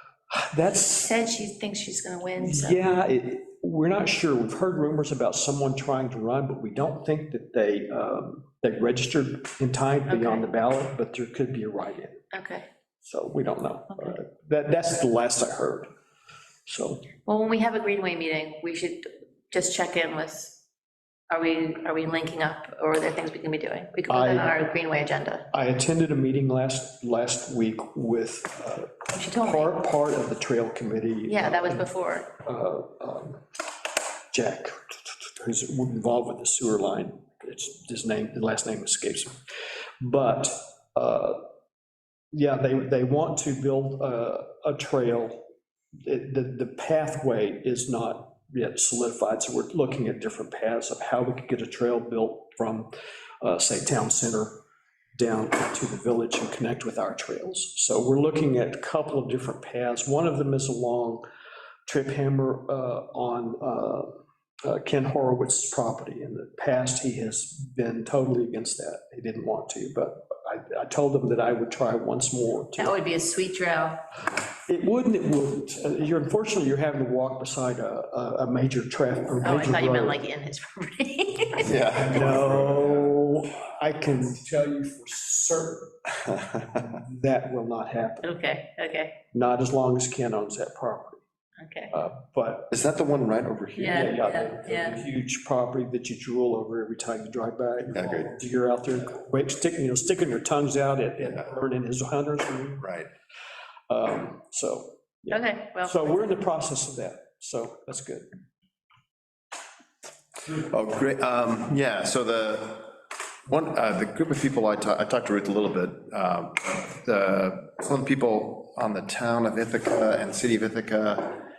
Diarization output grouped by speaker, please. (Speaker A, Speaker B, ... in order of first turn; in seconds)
Speaker A: 0.3-1.1, 2.4-12.2, 13.0-15.9, 16.7-17.1, 24.1-24.6, 25.5-33.4, 34.3-39.4, 40.0-41.4, 42.3-45.4, 46.0-52.9, 53.4-54.6, 55.2-61.2, 61.9-64.1, 64.6-73.0, 74.7-80.2, 81.9-85.9, 86.7-88.3, 89.3-91.2, 91.9-92.7, 93.8-102.9, 103.9-108.3
Speaker B: 1.0-2.8, 10.1-10.5, 12.3-12.7, 17.3-20.6, 21.3-25.5, 29.1-29.7, 31.3-32.3, 72.8-74.0, 79.4-81.7, 88.2-89.2, 91.6-91.9, 93.8-95.0, 105.3-106.3
Speaker C: 81.6-83.2, 92.7-94.0, 97.9-98.3, 102.8-103.1, 110.5-112.9, 113.5-121.4